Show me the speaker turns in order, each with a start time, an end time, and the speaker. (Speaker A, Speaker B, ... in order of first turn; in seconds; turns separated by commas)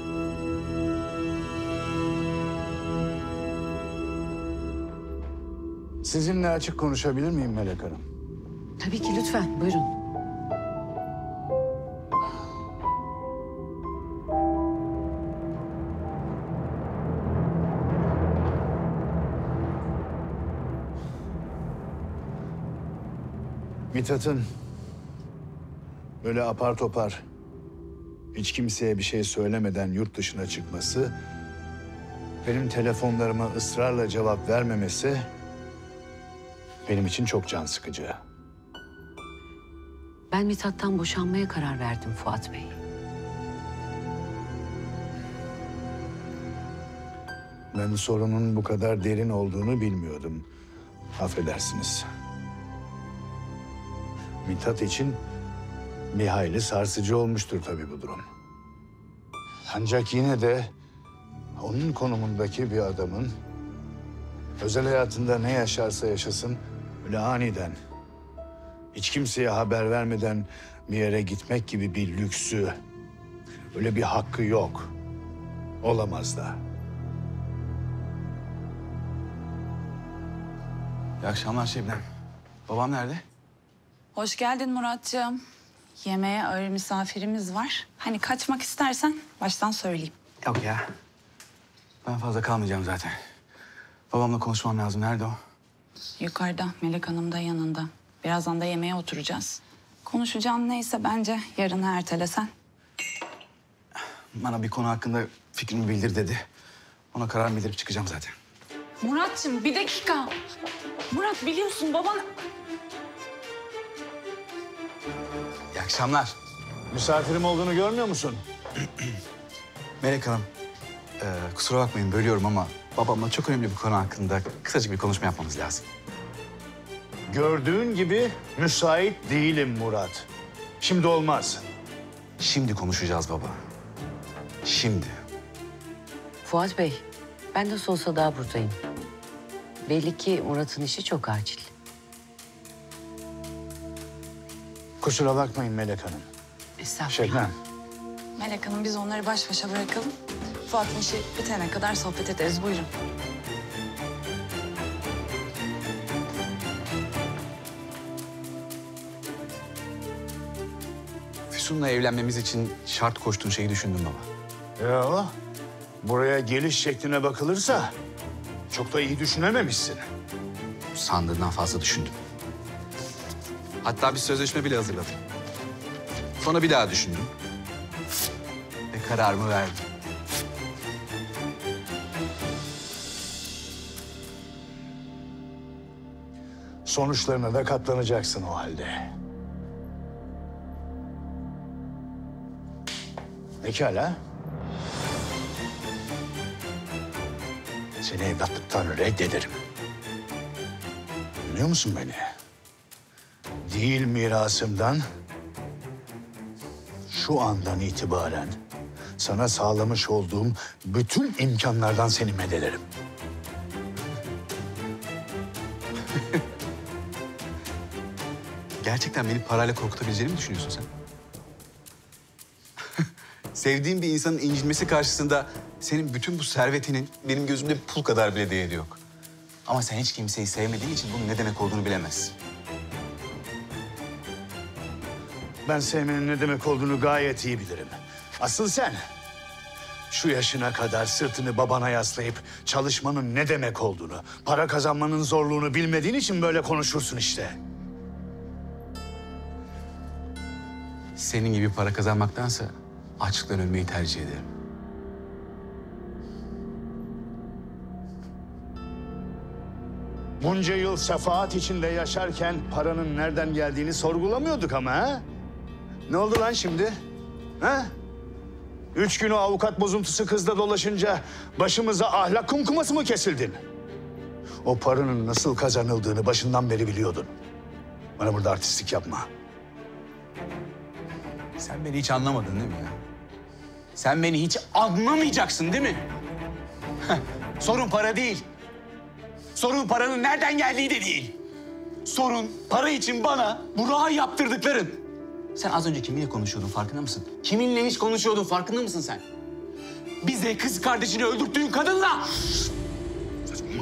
Speaker A: 6.0-8.0, Speaker B: 8.8-9.9, Speaker A: 23.9-24.4, Speaker A: 26.2-27.2, Speaker A: 28.3-31.1, Speaker A: 32.4-35.3, Speaker A: 36.9-38.2, Speaker B: 40.3-42.8, Speaker A: 47.7-50.5, Speaker A: 51.2-52.1, Speaker A: 54.4-55.2, Speaker A: 56.1-58.2, Speaker A: 59.7-60.7, Speaker A: 61.6-63.3, Speaker A: 64.6-67.8, Speaker A: 68.9-72.7, Speaker A: 73.7-74.9, Speaker A: 75.8-76.6, Speaker C: 81.2-82.0, Speaker C: 82.7-83.2, Speaker D: 84.1-85.4, Speaker D: 86.0-90.1, Speaker C: 90.4-90.8, Speaker C: 92.0-93.1, Speaker C: 94.1-95.4, Speaker D: 96.2-102.5, Speaker C: 104.3-106.4, Speaker C: 107.1-108.3, Speaker D: 109.0-110.3, Speaker D: 111.1-112.2, Speaker C: 115.7-116.3, Speaker A: 116.9-118.4, Speaker C: 120.0-120.5, Speaker C: 121.2-125.8, Speaker A: 127.3-130.3, Speaker A: 130.8-131.6, Speaker C: 132.4-133.6, Speaker C: 134.6-135.1, Speaker B: 136.4-138.8, Speaker B: 139.8-141.7, Speaker A: 145.0-146.2, Speaker B: 146.8-147.4, Speaker A: 147.1-147.5, Speaker D: 148.4-150.1, Speaker D: 150.7-152.9, Speaker C: 161.5-164.3, Speaker A: 164.8-165.3, Speaker A: 166.0-167.9, Speaker A: 168.7-170.1, Speaker C: 170.9-172.1, Speaker C: 173.8-175.2, Speaker C: 176.4-177.3, Speaker C: 178.9-179.8, Speaker A: 186.8-189.1, Speaker A: 193.6-194.2, Speaker A: 198.0-199.6, Speaker A: 201.5-202.3, Speaker A: 203.6-205.0, Speaker A: 207.1-208.5, Speaker A: 209.2-212.8, Speaker C: 218.8-220.9, Speaker C: 223.0-229.0, Speaker C: 229.7-232.3, Speaker A: 235.7-239.0, Speaker A: 240.1-247.6, Speaker C: 251.2-254.5, Speaker A: 260.4-265.2, Speaker A: 266.1-266.9, Speaker A: 267.6-267.9, Speaker A: 268.9-273.6, Speaker A: 274.6-277.3, Speaker A: 278.2-279.3, Speaker C: 281.6-283.0, Speaker C: 283.9-286.1, Speaker C: 287.0-288.4, Speaker C: 289.5-291.4, Speaker C: 292.0-295.0, Speaker C: 295.5-299.2, Speaker C: 300.2-302.5